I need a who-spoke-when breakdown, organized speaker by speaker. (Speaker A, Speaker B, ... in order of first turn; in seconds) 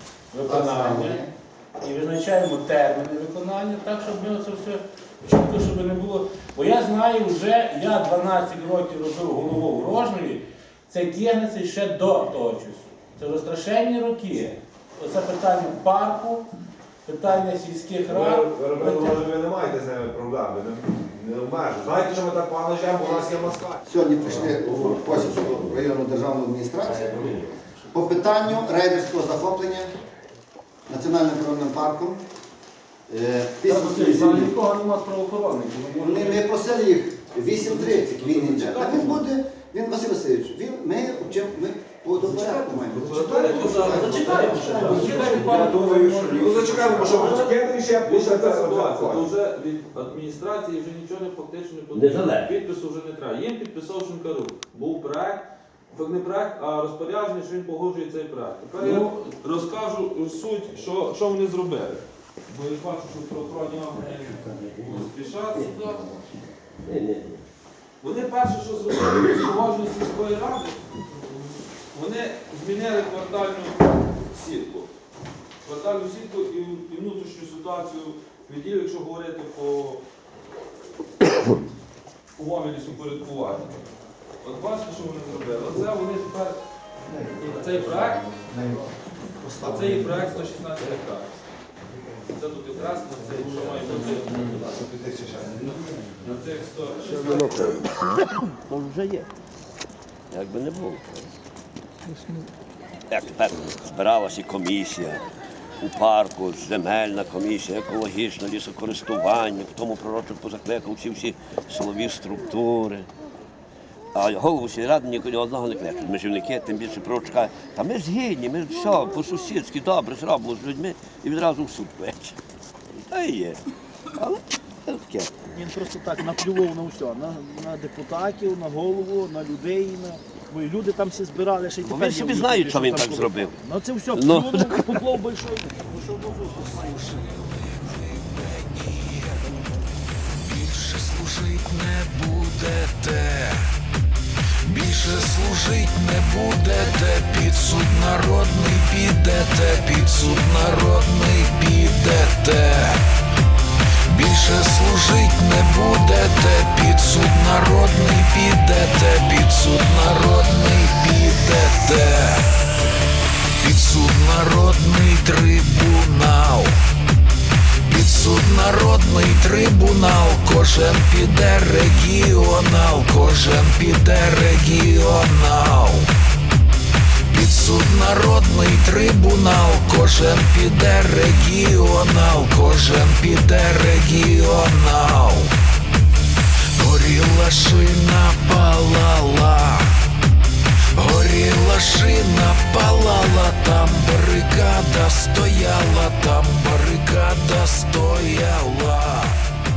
Speaker A: 0.3-1.2, 1.8-16.4, 17.1-19.2, 33.7-36.3, 43.4-47.4
Speaker B: 0.4-1.3, 23.2-27.2, 27.9-29.9, 30.9-32.2, 33.1-34.6, 36.0-44.6, 87.1-87.4, 88.0-88.9, 89.4-90.0
Speaker C: 18.1-25.5, 44.7-49.3, 93.9-95.8
Speaker D: 37.6-39.2, 42.2-66.2, 68.0-74.9, 75.6-80.0, 82.4-83.8, 84.4-86.6, 87.4-88.3, 89.6-91.3, 92.3-94.8, 96.2-97.7
Speaker E: 51.9-52.5, 64.6-65.7, 66.8-67.4, 98.7-99.3, 100.3-101.3, 103.1-105.2, 105.8-113.1, 114.1-122.4, 122.9-123.6, 124.2-125.3, 131.8-133.6, 134.1-135.3
Speaker F: 125.6-131.8, 133.7-133.9
Speaker G: 136.0-139.5, 140.4-143.8, 144.6-153.1, 154.1-162.7, 163.6-166.8, 167.9-176.2, 177.3-185.6, 186.8-190.0, 190.9-199.4